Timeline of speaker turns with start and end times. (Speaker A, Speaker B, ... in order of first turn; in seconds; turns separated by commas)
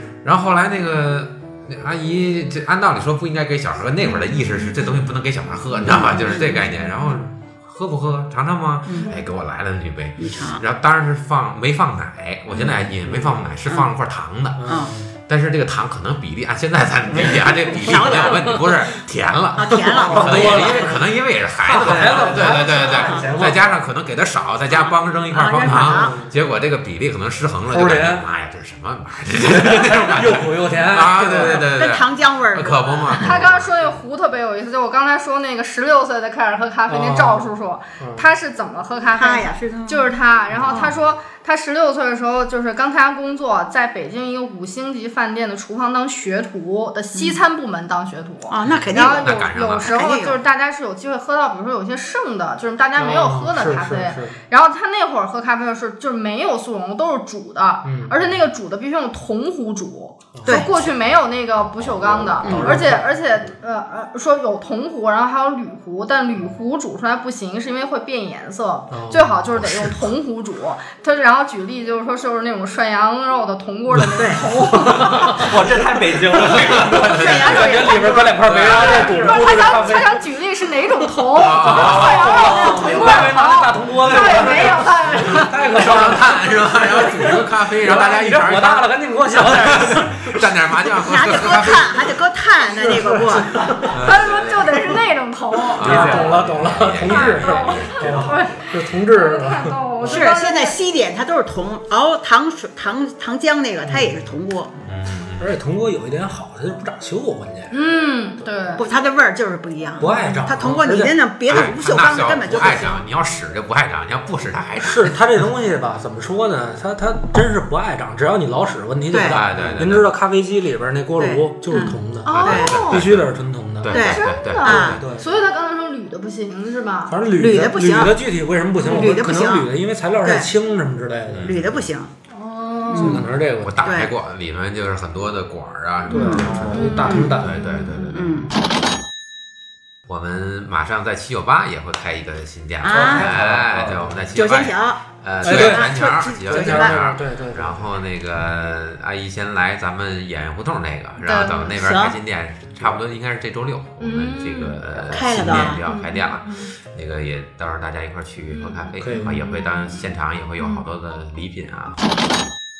Speaker A: 0.2-33.8, Speaker B: 4.3-5.0, Speaker B: 5.8-6.3, Speaker C: 5.8-6.7, Speaker B: 9.0-9.3, Speaker C: 10.2-10.6, Speaker B: 12.5-12.8, Speaker D: 13.0-13.5, Speaker D: 14.6-15.1, Speaker C: 14.7-14.9, Speaker E: 17.1-17.4, Speaker C: 17.8-18.6, Speaker C: 19.6-20.9, Speaker D: 19.8-21.1, Speaker D: 21.6-23.6, Speaker E: 21.8-23.8, Speaker C: 24.7-26.1, Speaker D: 25.8-26.3, Speaker D: 27.7-28.2, Speaker D: 29.5-31.7, Speaker C: 31.7-33.3, Speaker B: 33.2-75.5, Speaker D: 36.9-37.5, Speaker D: 38.0-38.2, Speaker C: 39.1-40.1, Speaker D: 40.5-40.9, Speaker C: 40.6-40.9, Speaker C: 48.5-50.4, Speaker A: 48.6-49.9, Speaker D: 53.0-54.4, Speaker D: 57.8-58.2, Speaker D: 60.3-60.6, Speaker C: 60.5-60.8, Speaker E: 61.9-63.0, Speaker C: 62.4-62.7, Speaker D: 62.5-63.0, Speaker D: 68.9-69.3, Speaker A: 69.5-70.1, Speaker C: 74.2-74.4, Speaker D: 74.7-75.5, Speaker E: 75.0-78.0, Speaker A: 76.6-77.6, Speaker D: 76.8-80.2, Speaker C: 76.9-79.4, Speaker A: 78.4-79.4, Speaker B: 78.7-86.2, Speaker D: 81.0-90.5, Speaker A: 81.3-82.8, Speaker E: 82.7-83.2, Speaker A: 85.7-92.2, Speaker C: 91.1-93.7, Speaker D: 92.7-94.0, Speaker B: 93.8-96.3, Speaker A: 93.9-94.7, Speaker A: 95.7-98.6, Speaker D: 95.8-100.3, Speaker E: 95.8-96.5, Speaker B: 97.0-100.8, Speaker E: 98.0-98.4, Speaker C: 100.0-104.8, Speaker D: 103.8-104.3, Speaker A: 104.8-105.6, Speaker D: 105.4-107.7, Speaker B: 107.7-108.9, Speaker C: 108.8-113.0, Speaker D: 110.0-111.2, Speaker A: 111.5-115.2, Speaker D: 114.8-124.0, Speaker C: 119.1-119.4, Speaker A: 119.3-120.1, Speaker C: 121.2-122.8, Speaker B: 121.7-123.0, Speaker A: 122.2-125.0, Speaker C: 123.9-125.0, Speaker B: 123.9-127.2, Speaker D: 124.9-125.3, Speaker D: 127.1-131.7, Speaker C: 127.4-128.2, Speaker C: 128.8-129.7, Speaker C: 130.2-130.5, Speaker A: 131.3-131.9, Speaker C: 131.4-132.1, Speaker B: 132.3-133.2, Speaker C: 132.9-133.2, Speaker D: 132.9-133.8, Speaker A: 133.6-136.7, Speaker C: 133.8-134.1, Speaker C: 136.1-136.5, Speaker D: 136.1-137.8, Speaker E: 136.3-137.1, Speaker B: 136.7-138.3, Speaker C: 137.0-137.4, Speaker A: 137.3-138.5, Speaker C: 138.1-138.5, Speaker A: 140.1-162.0, Speaker C: 142.8-143.3, Speaker D: 142.9-144.2, Speaker E: 143.1-144.1, Speaker C: 144.3-146.9, Speaker D: 145.4-148.0, Speaker B: 151.2-151.8, Speaker C: 151.6-152.1, Speaker B: 154.0-154.8, Speaker C: 155.1-155.8, Speaker D: 155.4-155.8, Speaker B: 155.8-156.7, Speaker B: 158.5-160.8, Speaker D: 159.0-159.4